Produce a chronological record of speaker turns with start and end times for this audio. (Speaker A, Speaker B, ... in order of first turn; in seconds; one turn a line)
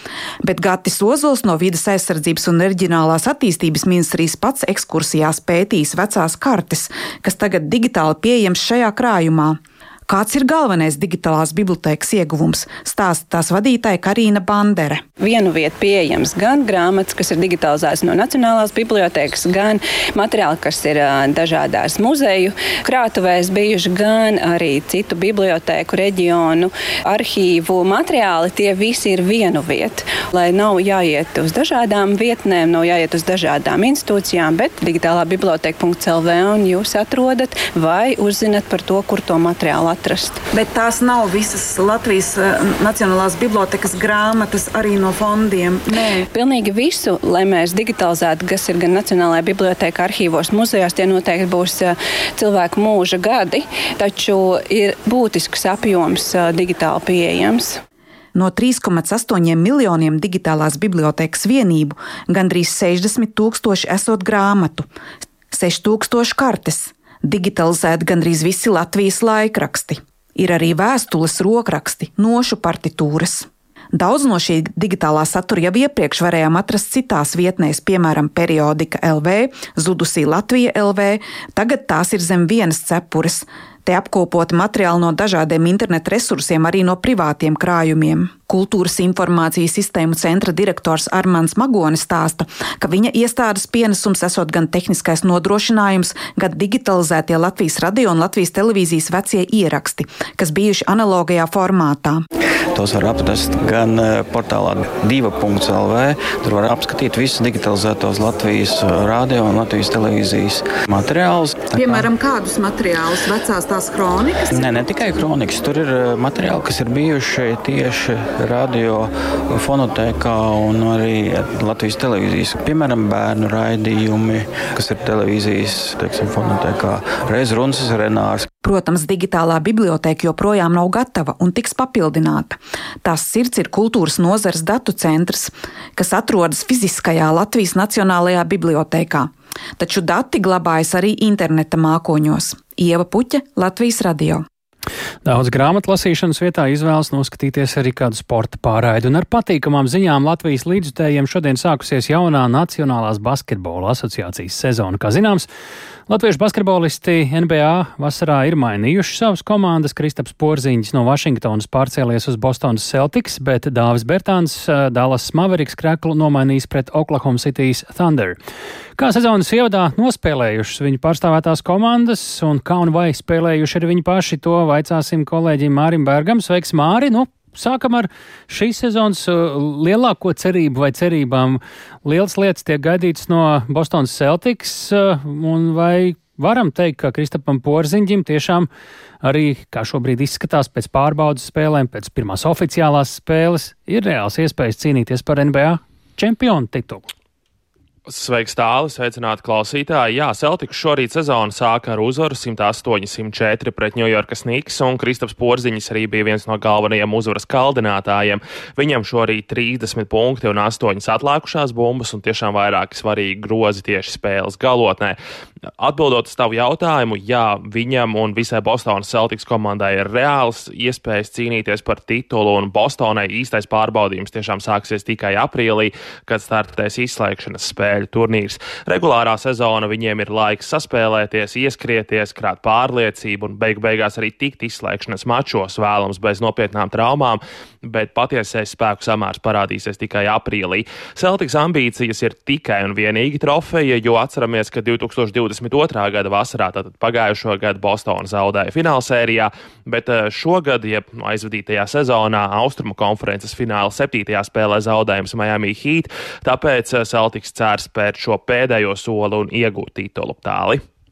Speaker A: 0.4-15.0
Speaker B: 15.2-40.4
Speaker A: 40.5-46.2
Speaker B: 46.3-57.8
Speaker A: 58.3-64.9
Speaker A: 65.5-102.2
Speaker C: 102.7-112.1
Speaker A: 111.7-114.7
Speaker C: 114.5-128.5
Speaker A: 128.6-144.4
Speaker D: 145.2-155.5
Speaker D: 156.1-168.4
Speaker D: 169.0-188.7
Speaker D: 189.2-197.1
Speaker E: 198.1-215.2
Speaker E: 215.8-260.8